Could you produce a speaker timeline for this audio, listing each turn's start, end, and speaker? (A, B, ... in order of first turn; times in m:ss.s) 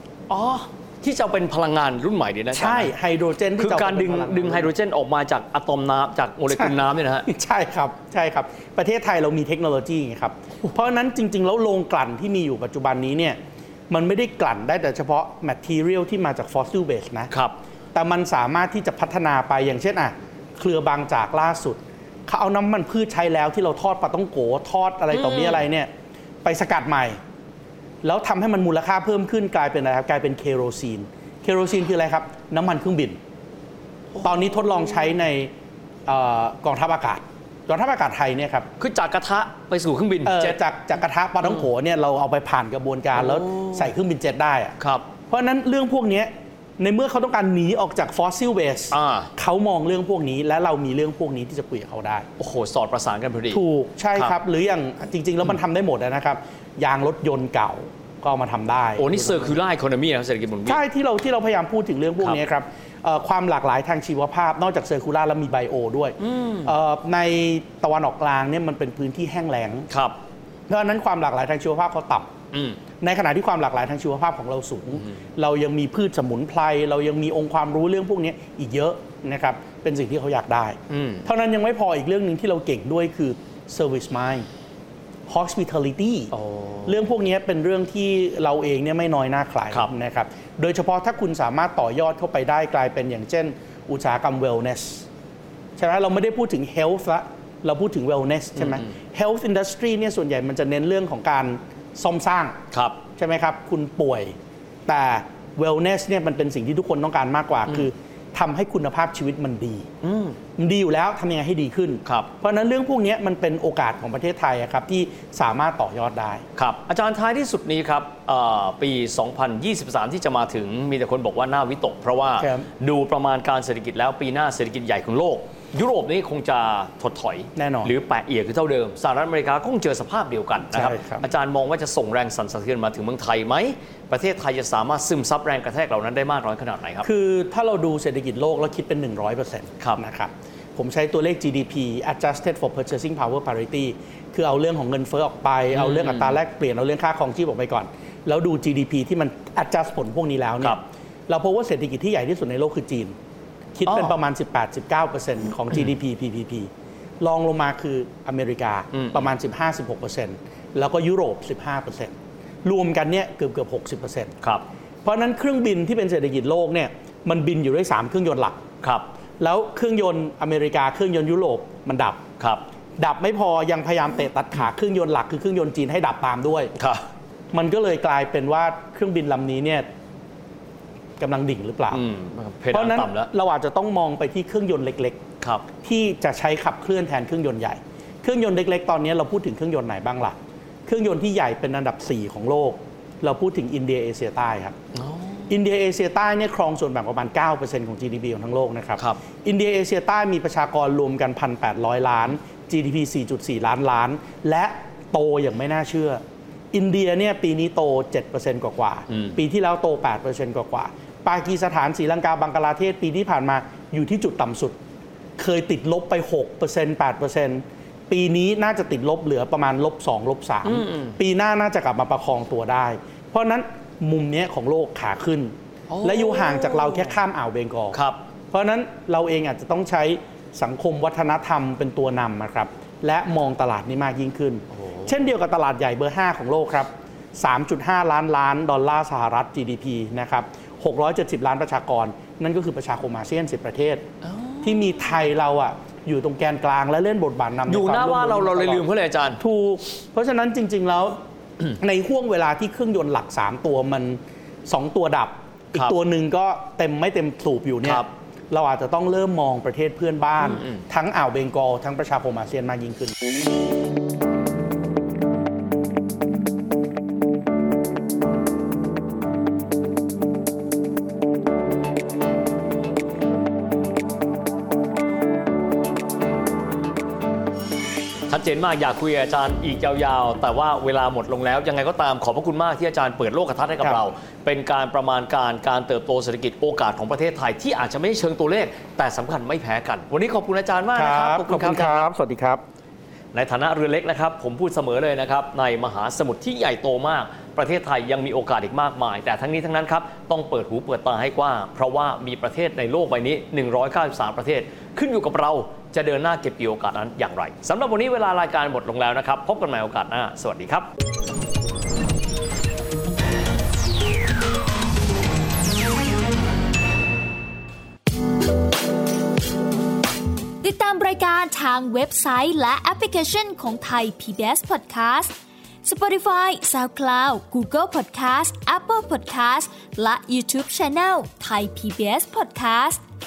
0:00.3-0:02.9 A
0:02.5-0:04.7 B
0:03.6-0:07.3 A
0:06.5-0:13.4 B
0:13.9-0:17.3 B
0:17.3-0:17.6 A
0:17.9-0:25.9 B
0:25.1-0:25.6 A
0:26.4-0:27.2 B
0:28.0-0:33.2 B
0:34.2-0:35.5 B
0:36.0-0:38.7 B
0:38.8-0:40.6 A
0:40.2-0:44.8 B
0:43.2-0:43.9 A
0:44.8-0:45.1 A
0:45.3-0:52.3 B
0:48.9-0:49.3 A
0:52.4-0:54.4 A
0:53.5-0:59.6 B
0:59.0-1:00.8 A
1:00.6-1:09.9 B
1:06.2-1:06.7 A
1:09.9-1:10.2 A
1:10.7-1:12.3 B
1:12.5-1:12.8 A
1:13.0-1:24.5 B
1:20.9-1:21.3 A
1:25.3-1:26.3 B
1:26.3-1:27.0 A
1:26.8-1:35.1 B
1:35.8-1:42.6 B
1:38.6-1:38.8 A
1:42.7-1:43.0 A
1:43.2-1:44.3 B
1:44.8-1:49.9 B
1:50.0-1:50.4 A
1:50.6-1:56.4 B
1:52.0-1:52.3 A
1:56.5-2:17.1 A
2:02.4-2:02.7 B
2:07.6-2:07.9 B
2:10.7-2:11.3 B
2:17.0-2:33.1 B
2:25.7-2:26.4 A
2:33.7-2:44.3 B
2:33.8-2:34.2 A
2:38.9-2:39.3 A
2:45.0-2:48.6 B
2:48.8-2:49.1 A
2:49.4-2:52.2 B
2:52.4-2:52.6 A
2:53.0-2:56.7 B
2:56.8-2:57.0 A
2:57.5-2:59.8 B
3:01.2-3:02.0 B
3:01.9-3:03.3 A
3:02.7-3:05.2 B
3:05.4-3:05.7 A
3:05.8-3:10.3 B
3:10.8-3:14.7 B
3:14.9-3:15.6 A
3:15.5-3:34.8 B
3:29.1-3:29.4 A
3:35.4-3:48.0 B
3:40.6-3:41.2 A
3:45.9-3:47.2 A
3:47.9-3:48.2 A
3:48.5-4:04.0 B
3:54.7-3:55.1 A
4:04.2-4:05.0 A
4:04.6-4:08.8 B
4:07.6-4:09.4 A
4:09.4-4:11.2 B
4:11.7-4:23.2 B
4:17.8-4:18.1 A
4:20.4-4:20.8 A
4:38.3-4:52.1 A
4:50.9-4:52.6 B
4:53.3-5:10.9 A
5:20.6-5:33.0 C